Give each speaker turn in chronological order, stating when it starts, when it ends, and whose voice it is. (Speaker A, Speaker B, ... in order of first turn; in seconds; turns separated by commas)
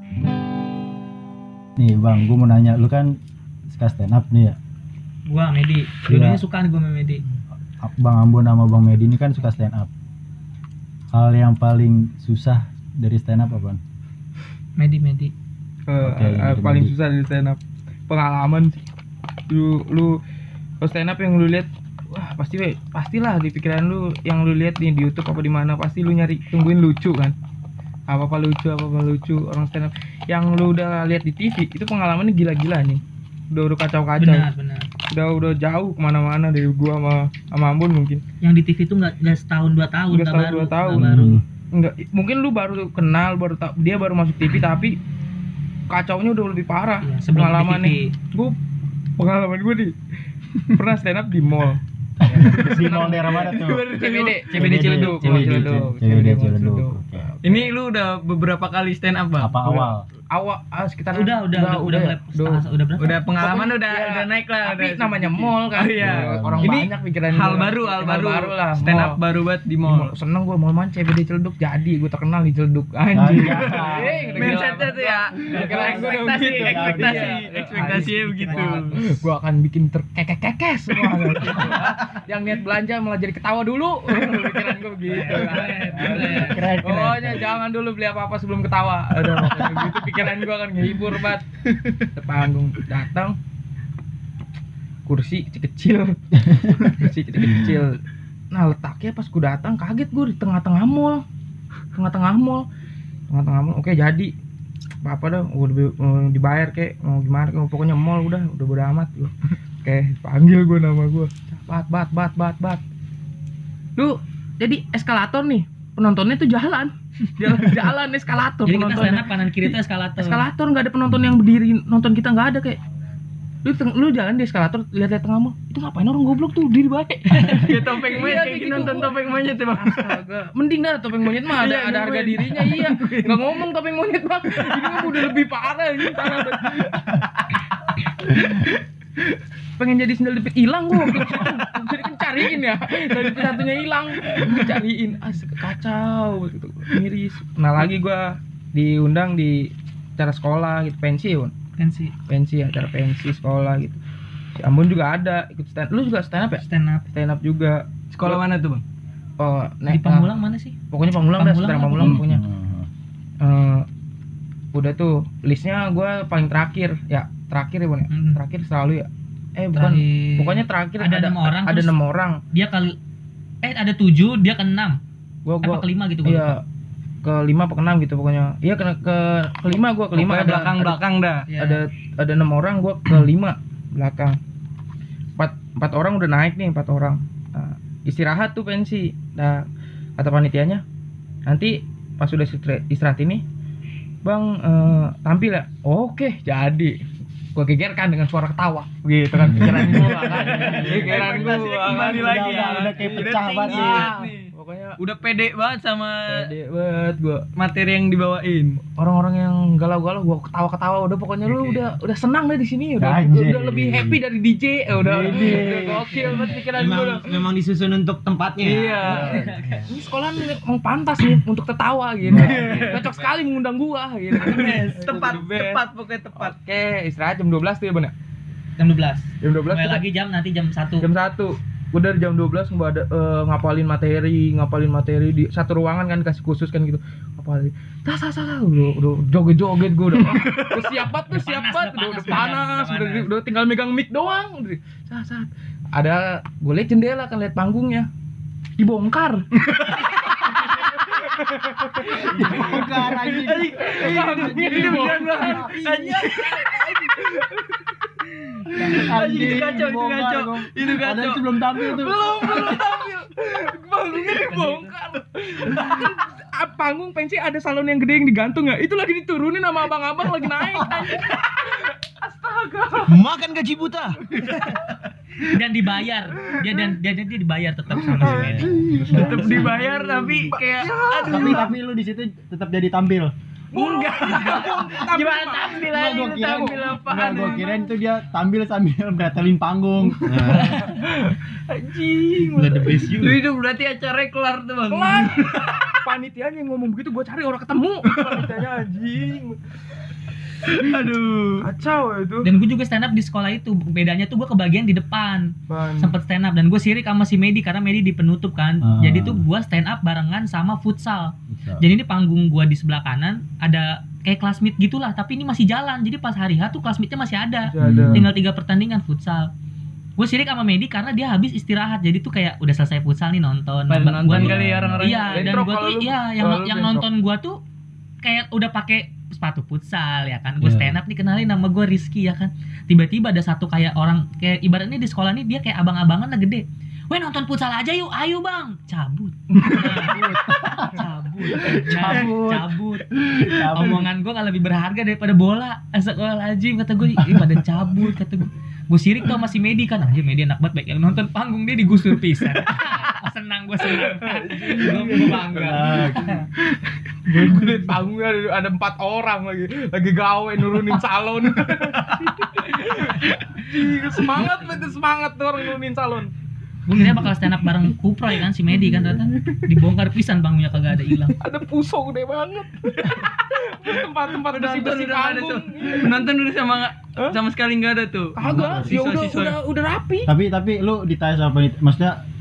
Speaker A: 1.8-4.6, Speaker B: 5.3-7.2, Speaker A: 6.1-6.4, Speaker A: 7.8-9.9, Speaker A: 11.1-13.8, Speaker B: 14.8-15.3, Speaker C: 15.9-18.8, Speaker A: 16.0-16.9, Speaker C: 19.5-20.2, Speaker C: 20.8-27.4, Speaker C: 28.1-34.5, Speaker B: 34.2-34.9, Speaker C: 35.1-38.2, Speaker B: 38.4-41.4, Speaker C: 40.1-41.1, Speaker A: 40.9-41.4, Speaker C: 41.7-45.0, Speaker C: 45.9-48.6, Speaker B: 47.0-48.1, Speaker C: 49.2-50.0, Speaker C: 50.7-57.7, Speaker A: 52.2-53.9, Speaker D: 53.5-55.8, Speaker A: 54.5-57.3, Speaker D: 57.4-59.6, Speaker A: 59.4-60.0, Speaker C: 59.6-62.6, Speaker B: 61.1-63.2, Speaker D: 63.0-70.1, Speaker C: 63.4-69.2, Speaker A: 66.0-66.9, Speaker C: 69.8-93.4, Speaker A: 73.1-74.5, Speaker D: 73.3-78.9, Speaker B: 75.5-79.2, Speaker A: 76.6-77.3, Speaker B: 81.4-81.8, Speaker D: 84.1-84.7, Speaker B: 85.0-86.7, Speaker A: 85.8-87.6, Speaker A: 89.5-89.9, Speaker C: 95.1-101.2, Speaker A: 96.5-96.9, Speaker C: 102.0-102.7, Speaker C: 103.3-104.3, Speaker C: 105.0-112.8, Speaker C: 114.0-122.8, Speaker B: 118.7-120.5, Speaker C: 123.6-137.2, Speaker D: 127.3-130.2, Speaker D: 131.5-133.6, Speaker C: 138.2-138.8, Speaker C: 139.8-151.5, Speaker B: 151.8-152.2, Speaker C: 152.3-154.0, Speaker C: 154.6-158.4, Speaker B: 156.4-157.1, Speaker D: 158.1-158.8, Speaker C: 159.4-160.3, Speaker B: 159.9-160.8, Speaker C: 160.9-162.4, Speaker B: 161.3-162.2, Speaker A: 162.0-162.9, Speaker C: 163.4-163.9, Speaker C: 164.7-172.4, Speaker B: 168.1-168.4, Speaker B: 169.7-171.9, Speaker B: 172.5-173.0, Speaker B: 173.6-175.0, Speaker C: 175.4-176.6, Speaker B: 175.6-176.6, Speaker C: 177.2-184.4, Speaker D: 180.1-181.5, Speaker B: 181.5-181.8, Speaker C: 185.4-189.7, Speaker C: 190.2-190.8, Speaker C: 191.5-193.4, Speaker C: 194.2-197.0, Speaker C: 197.6-205.0, Speaker A: 199.5-204.2, Speaker D: 199.8-206.5, Speaker C: 206.3-207.5, Speaker D: 207.6-208.8, Speaker C: 209.0-217.3, Speaker A: 213.0-214.2, Speaker A: 214.9-216.2, Speaker E: 216.3-219.9, Speaker C: 218.6-225.8, Speaker B: 219.0-219.8, Speaker D: 222.3-223.1, Speaker A: 222.3-222.6, Speaker E: 222.5-222.9, Speaker B: 222.8-223.4, Speaker D: 224.3-226.6, Speaker B: 224.6-225.2, Speaker C: 226.3-228.1, Speaker B: 228.8-231.1, Speaker C: 229.4-230.1, Speaker C: 231.0-248.1, Speaker D: 240.3-240.7, Speaker B: 241.3-243.3, Speaker C: 248.8-249.5, Speaker D: 249.6-257.7, Speaker C: 250.4-257.6, Speaker A: 252.0-255.9, Speaker D: 258.3-261.4, Speaker A: 258.8-262.8, Speaker C: 261.8-273.3, Speaker D: 262.5-262.8, Speaker B: 264.3-264.9, Speaker E: 273.0-274.2, Speaker C: 274.3-275.0, Speaker B: 275.4-278.9, Speaker C: 276.5-276.9, Speaker C: 278.0-281.7, Speaker A: 278.2-279.8, Speaker D: 279.1-281.7, Speaker E: 279.3-279.7, Speaker E: 280.7-281.6, Speaker A: 281.2-283.3, Speaker C: 283.7-287.9, Speaker D: 283.7-287.7, Speaker A: 284.9-290.8, Speaker E: 290.2-291.0, Speaker C: 290.4-293.1, Speaker E: 292.4-293.4, Speaker D: 293.0-296.0, Speaker C: 294.9-299.6, Speaker D: 298.1-298.5, Speaker D: 300.6-301.7, Speaker C: 301.6-302.5, Speaker B: 302.4-319.5, Speaker C: 305.7-306.2, Speaker A: 308.8-309.4, Speaker A: 311.5-311.9, Speaker C: 317.6-318.3, Speaker A: 317.8-318.3, Speaker B: 320.2-327.6, Speaker D: 323.9-325.6, Speaker A: 324.2-325.1, Speaker C: 325.1-327.1, Speaker B: 328.2-356.4, Speaker A: 330.6-331.0, Speaker C: 339.6-339.9, Speaker A: 340.0-341.0, Speaker A: 341.6-344.1, Speaker D: 342.0-342.3, Speaker C: 353.9-366.3, Speaker A: 354.9-356.5, Speaker B: 364.4-364.9, Speaker B: 366.9-371.4, Speaker C: 371.4-376.3, Speaker D: 374.4-379.6, Speaker C: 378.4-380.3, Speaker A: 378.4-379.0, Speaker A: 380.3-382.2